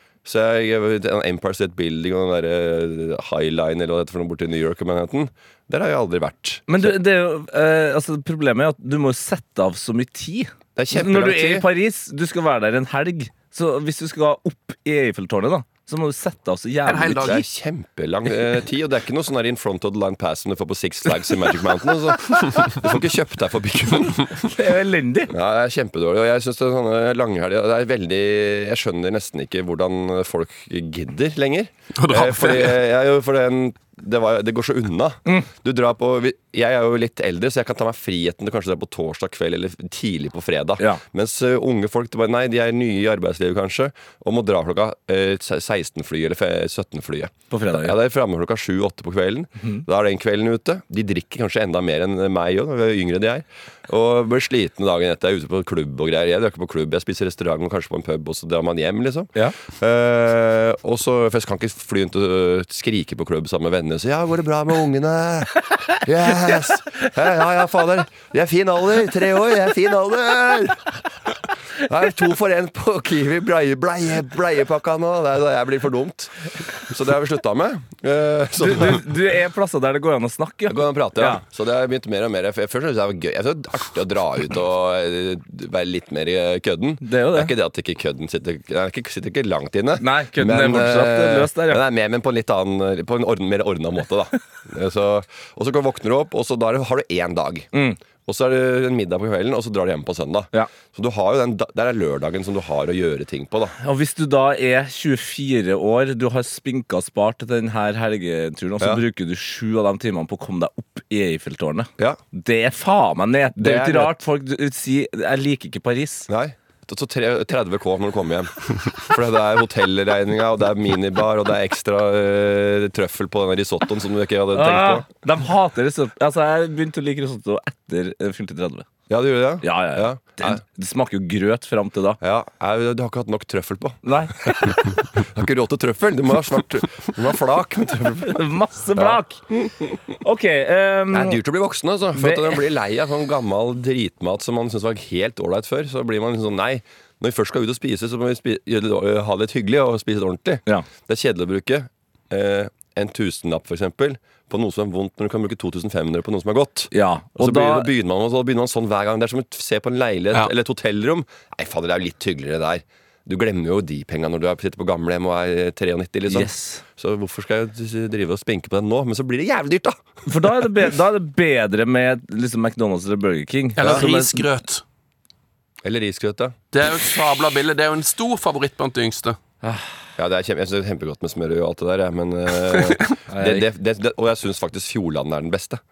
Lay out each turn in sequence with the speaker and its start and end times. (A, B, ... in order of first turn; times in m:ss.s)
0:00.2-0:06.9 A
0:06.7-0:17.4 B
0:10.8-0:11.7 A
0:16.9-0:17.4 C
0:17.2-0:24.5 A
0:24.5-0:25.3 B
0:25.3-1:10.9 A
0:32.0-0:32.8 C
0:47.5-0:47.9 B
1:11.8-1:19.1 A
1:18.6-1:21.4 B
1:20.7-1:37.7 A
1:27.0-1:27.5 B
1:30.0-1:31.8 B
1:37.7-1:38.0 B
1:38.2-1:43.7 A
1:43.8-1:56.3 B
1:53.6-1:54.1 A
1:56.3-2:05.0 A
2:04.5-2:08.9 B
2:09.1-2:10.6 A
2:09.6-2:12.2 B
2:12.2-2:18.4 A
2:14.0-2:15.0 B
2:18.2-2:19.4 B
2:18.9-2:19.8 A
2:20.2-2:21.4 B
2:21.1-2:50.0 A
2:22.1-2:22.6 B
2:36.9-2:37.9 B
2:46.3-2:46.8 B
2:50.2-2:54.4 B
2:53.8-2:54.8 C
2:55.8-2:56.6 A
2:56.7-2:59.4 C
2:59.6-2:59.9 B
3:00.2-3:05.8 A
3:03.3-3:03.6 B